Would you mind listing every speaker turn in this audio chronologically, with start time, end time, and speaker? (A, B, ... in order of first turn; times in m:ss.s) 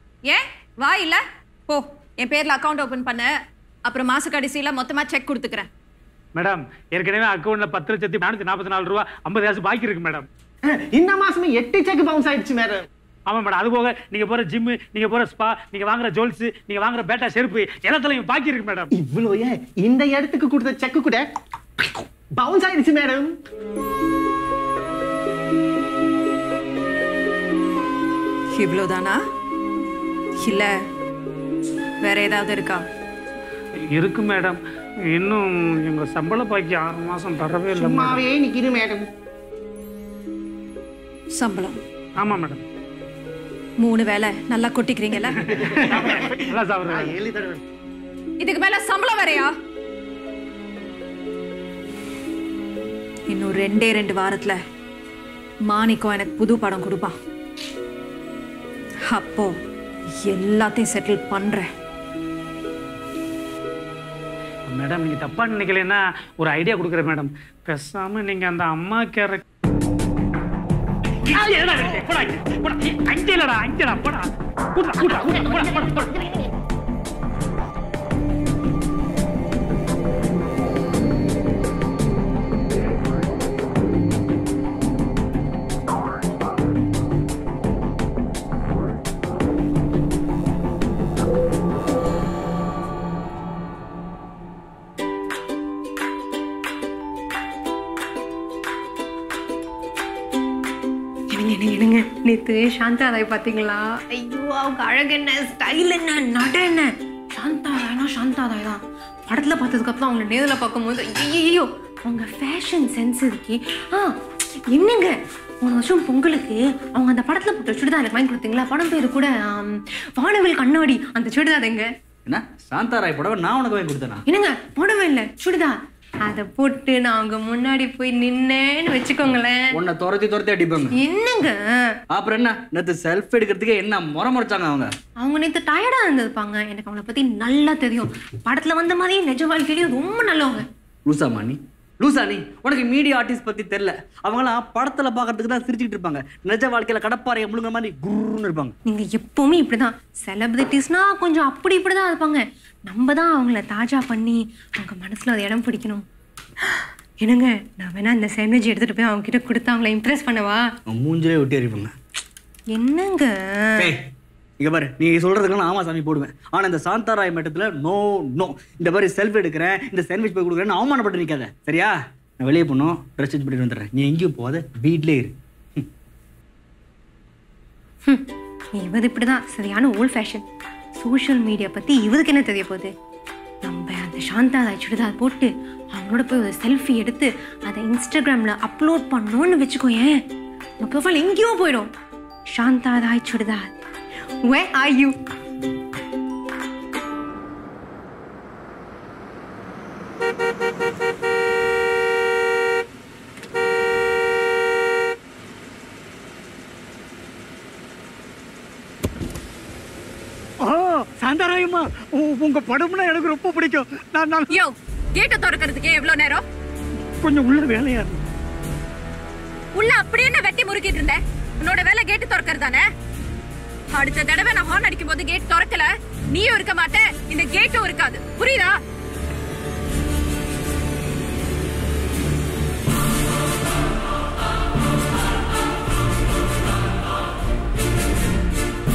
0:00.3-0:03.3 A
0:03.8-0:05.7 A
0:06.4-0:10.2 B
0:10.7-0:12.8 C
0:13.3-0:18.8 B
0:18.9-0:21.2 C
0:22.4-0:23.3 C
0:28.6-0:29.2 A
0:30.4-0:30.7 A
0:32.0-0:32.8 A
0:34.0-0:34.5 B
0:35.2-0:38.1 B
0:37.7-0:39.0 C
0:41.4-0:41.8 A
0:43.8-0:45.4 A
0:45.7-0:47.6 C
0:46.6-0:47.1 B
0:48.4-0:49.5 A
0:53.3-0:54.6 A
0:55.7-0:57.1 A
0:59.1-0:59.5 A
1:00.3-1:01.7 A
1:04.7-1:09.4 B
1:11.3-1:14.2 B
1:14.8-1:16.1 B
1:15.2-1:16.1 C
1:41.3-2:01.9 D
2:02.2-2:04.2 E
2:04.3-2:09.7 D
2:09.7-2:10.9 E
2:10.9-2:12.0 D
2:12.1-2:14.9 E
2:15.2-2:20.6 D
2:21.0-2:28.7 E
2:28.9-2:36.0 D
2:36.6-2:40.7 D
2:40.9-2:41.9 E
2:42.7-2:43.9 D
2:44.6-2:55.3 E
2:58.8-3:00.4 D
3:01.0-3:02.9 D
3:03.6-3:10.2 D
3:10.8-3:11.9 D
3:12.5-3:13.7 D
3:14.4-3:15.2 D
3:30.6-3:34.5 F
3:34.5-3:36.4 A
3:37.2-3:38.2 F
3:39.8-3:42.8 A
3:43.9-3:48.8 A